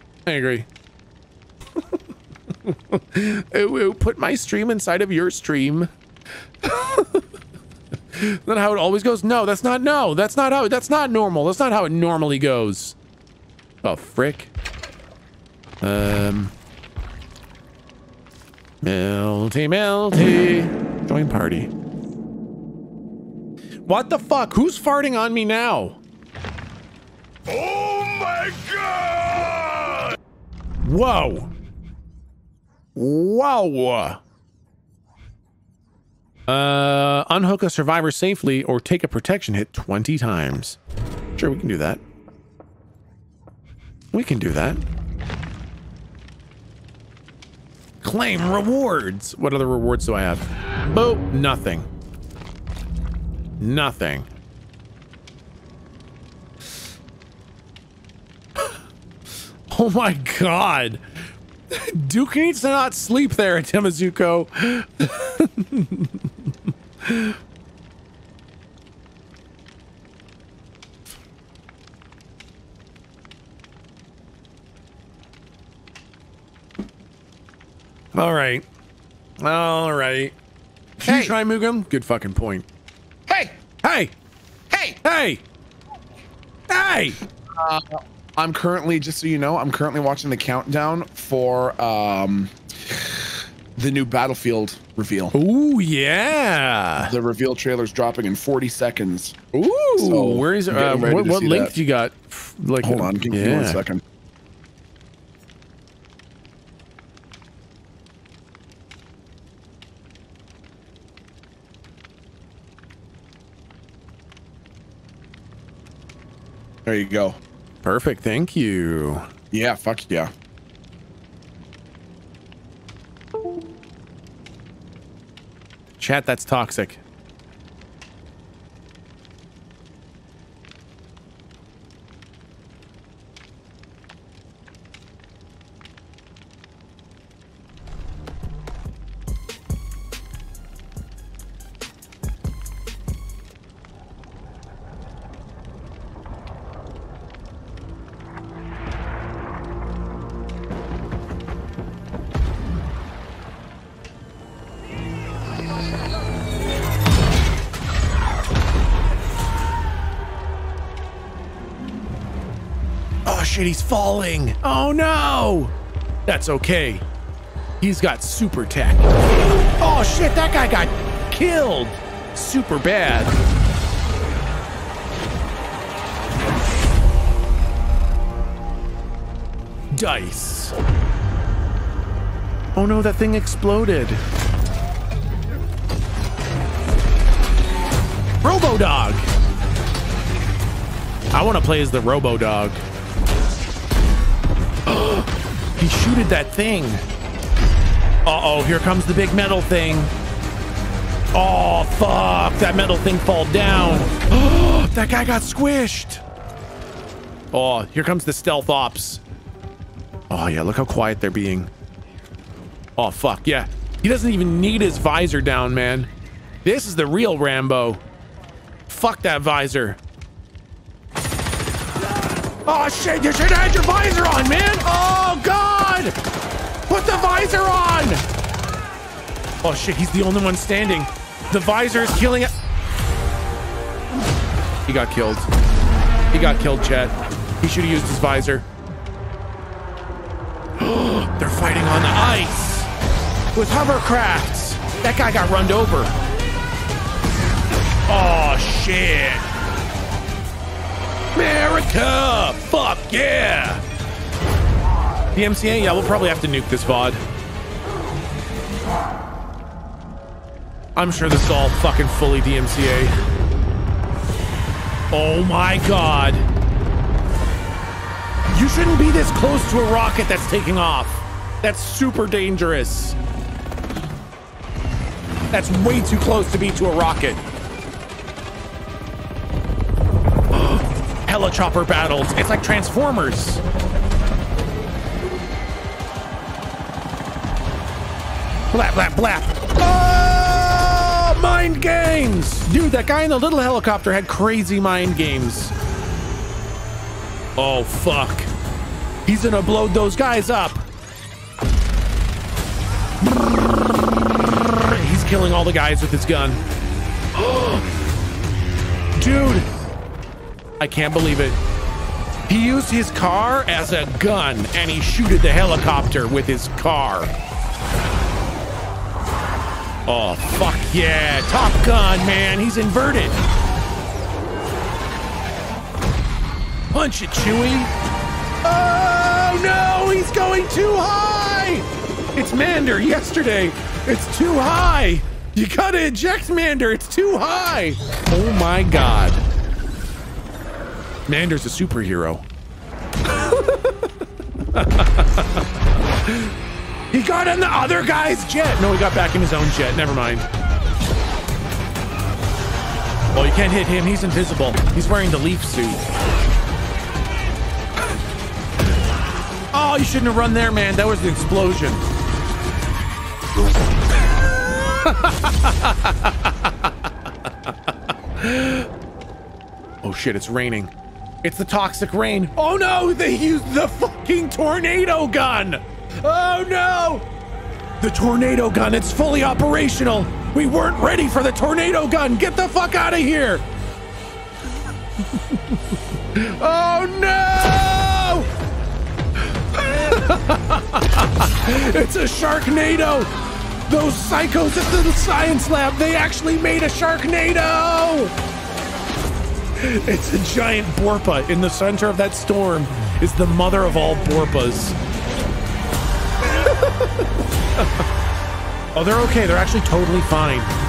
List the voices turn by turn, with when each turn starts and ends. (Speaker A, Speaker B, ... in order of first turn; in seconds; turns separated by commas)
Speaker A: 0.2-0.7, Speaker A: 2.6-5.9, Speaker A: 6.6-7.2, Speaker A: 8.1-13.0, Speaker A: 13.8-14.5, Speaker A: 15.8-16.5, Speaker A: 18.8-21.7, Speaker A: 23.9-26.0, Speaker A: 27.6-30.0, Speaker A: 30.8-31.5, Speaker A: 33.0-34.2, Speaker A: 36.5-40.8, Speaker A: 41.4-42.0, Speaker A: 44.1-44.8, Speaker A: 48.0-51.9, Speaker A: 53.6-54.3, Speaker A: 59.7-61.0, Speaker A: 61.7-66.3, Speaker A: 67.0-67.4, Speaker A: 78.1-78.6, Speaker A: 79.4-80.3, Speaker B: 81.0-81.3, Speaker A: 81.0-82.7, Speaker B: 83.3-83.5, Speaker A: 83.8-84.1, Speaker B: 84.7-85.0, Speaker A: 85.0-85.4, Speaker A: 86.7-87.2, Speaker B: 87.5-93.1, Speaker B: 93.8-95.3, Speaker A: 95.3-97.1, Speaker B: 97.0-99.4, Speaker A: 99.5-103.8, Speaker B: 100.0-101.7, Speaker B: 102.8-104.0, Speaker B: 116.8-117.4, Speaker A: 117.8-119.3, Speaker B: 119.5-120.3, Speaker A: 126.0-127.0, Speaker A: 163.2-165.7, Speaker A: 166.2-167.0, Speaker A: 167.8-169.1, Speaker A: 169.8-173.3, Speaker A: 179.9-180.7, Speaker A: 182.7-184.2, Speaker A: 188.4-189.2, Speaker A: 191.3-192.8, Speaker A: 194.8-197.0, Speaker A: 198.2-200.1, Speaker A: 201.3-206.2, Speaker A: 207.5-209.2, Speaker A: 210.3-211.7, Speaker A: 212.9-216.1, Speaker A: 216.6-218.0, Speaker A: 218.9-220.0, Speaker A: 222.7-226.2, Speaker A: 226.9-228.2, Speaker A: 229.6-232.5, Speaker A: 234.9-235.5, Speaker A: 236.3-238.7, Speaker A: 240.8-242.9, Speaker A: 243.5-246.1, Speaker A: 248.1-249.4, Speaker A: 251.3-253.8, Speaker A: 255.3-257.2, Speaker A: 260.9-263.1, Speaker A: 265.1-266.5, Speaker A: 268.5-273.2, Speaker A: 275.5-277.4, Speaker A: 280.5-283.6, Speaker A: 288.7-295.7, Speaker A: 297.6-298.5, Speaker A: 299.2-300.8, Speaker A: 304.5-306.6, Speaker A: 307.4-307.8, Speaker A: 309.2-309.6, Speaker A: 310.8-311.6, Speaker A: 312.5-317.3, Speaker A: 320.1-323.4, Speaker A: 326.9-327.9, Speaker A: 328.6-339.4, Speaker A: 341.3-342.4, Speaker A: 343.3-345.6, Speaker A: 346.2-346.5, Speaker A: 347.1-350.5, Speaker A: 353.3-356.0, Speaker A: 359.7-362.0, Speaker A: 365.0-366.9, Speaker A: 368.4-368.9, Speaker A: 370.0-370.9, Speaker A: 371.4-377.3, Speaker A: 378.0-383.6, Speaker A: 385.4-385.8, Speaker A: 386.3-388.5, Speaker A: 389.7-393.3, Speaker A: 393.9-398.3, Speaker A: 399.8-405.0, Speaker A: 406.6-407.1, Speaker A: 408.9-410.7